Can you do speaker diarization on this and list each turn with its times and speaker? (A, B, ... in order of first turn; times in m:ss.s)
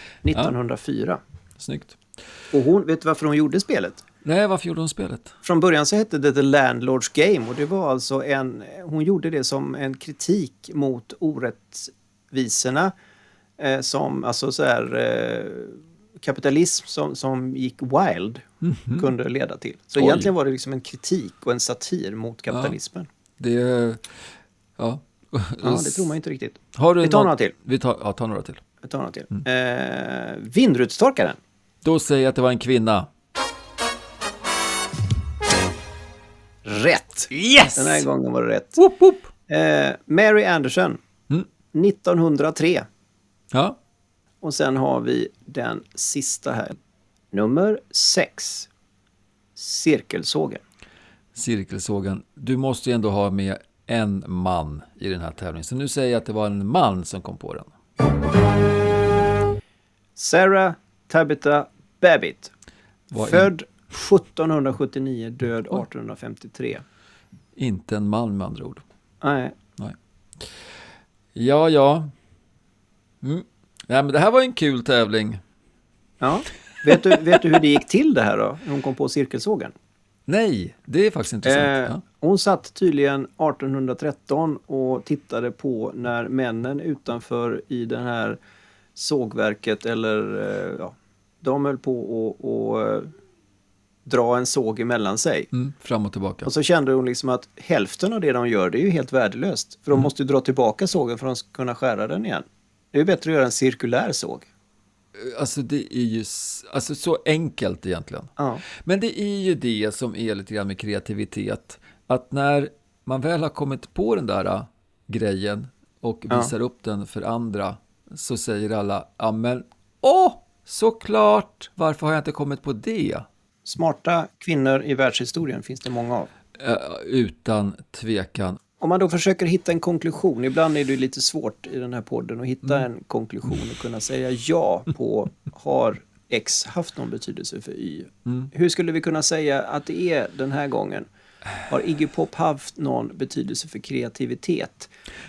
0:00.2-0:01.2 A
0:01.6-0:02.0 B
0:02.5-0:04.0 A
0:04.2-0:05.3 B
0:05.4-0:12.9 A
0:13.6-0:23.1 A
0:18.6-0:19.1 B
0:20.0-0:20.3 B
0:22.5-0:22.8 B
0:23.4-0:24.1 B
0:24.8-0:26.2 B
0:25.6-0:27.5 A
0:26.8-0:28.6 B
0:28.8-0:31.4 A
0:31.8-0:33.1 B
0:36.6-0:38.8 A
0:37.3-0:38.0 B
0:38.8-0:39.3 B
0:39.5-0:41.0 A
0:41.7-0:42.9 A
0:44.4-0:46.8 A
0:47.3-0:48.7 A
0:49.6-0:50.6 A
0:51.4-0:57.7 B
1:00.2-1:02.5 A
1:03.1-1:03.5 B
1:03.1-1:06.8 A
1:07.6-1:08.8 B
1:09.2-1:09.6 A
1:11.4-1:12.1 B
1:13.2-1:15.4 B
1:16.2-1:19.8 A
1:16.9-1:17.4 B
1:20.3-1:22.0 B
1:21.4-1:28.4 A
1:29.0-1:33.1 A
1:34.0-1:35.5 A
1:35.5-1:36.5 B
1:36.4-1:44.5 A
1:45.2-2:03.3 B
2:03.6-2:06.3 A
2:06.6-2:08.6 B
2:08.8-2:21.1 A
2:21.7-2:24.9 A